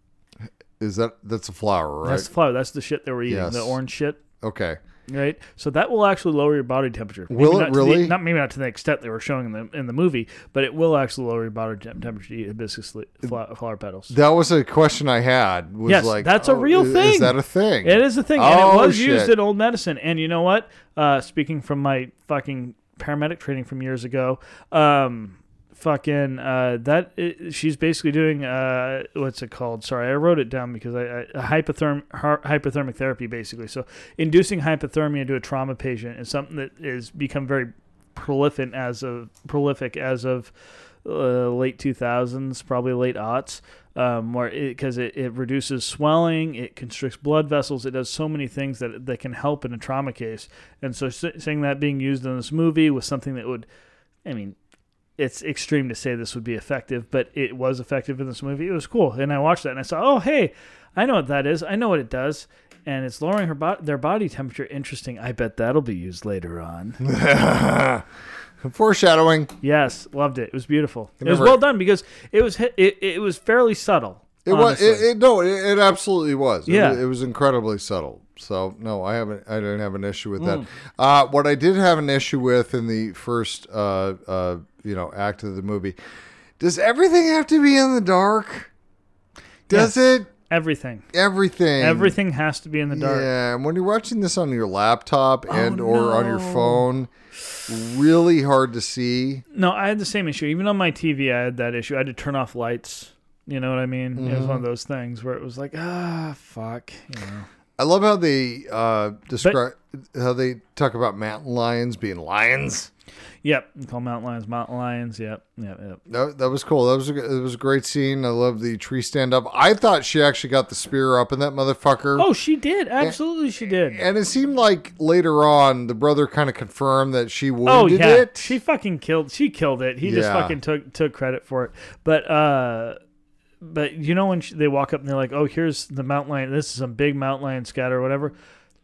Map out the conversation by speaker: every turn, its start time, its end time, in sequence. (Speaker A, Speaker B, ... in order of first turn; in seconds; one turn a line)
Speaker A: 0.8-2.3
Speaker B: 2.0-4.2
Speaker A: 3.3-3.8
Speaker A: 4.4-4.8
Speaker B: 5.1-14.1
Speaker A: 7.3-8.2
Speaker A: 14.1-19.3
Speaker B: 15.8-40.5
Speaker B: 41.0-53.7
Speaker B: 54.2-54.6
Speaker B: 55.2-67.0
Speaker A: 67.0-68.0
Speaker A: 68.6-69.5
Speaker B: 69.6-75.1
Speaker A: 71.2-71.6
Speaker A: 74.4-86.0
Speaker B: 76.7-77.0
Speaker B: 80.4-80.7
Speaker A: 86.6-88.7
Speaker A: 89.7-90.3
Speaker B: 89.7-91.1
Speaker A: 91.1-92.2
Speaker B: 91.8-93.3
Speaker A: 92.9-97.1
Speaker B: 95.5-96.9
Speaker A: 97.7-99.4
Speaker B: 99.5-107.5
Speaker A: 104.2-104.6
Speaker A: 107.8-112.9
Speaker B: 113.4-116.0
Speaker A: 116.1-122.3
Speaker B: 122.2-124.0
Speaker A: 123.9-128.5
Speaker B: 127.6-133.0
Speaker A: 130.0-130.6
Speaker B: 133.6-138.3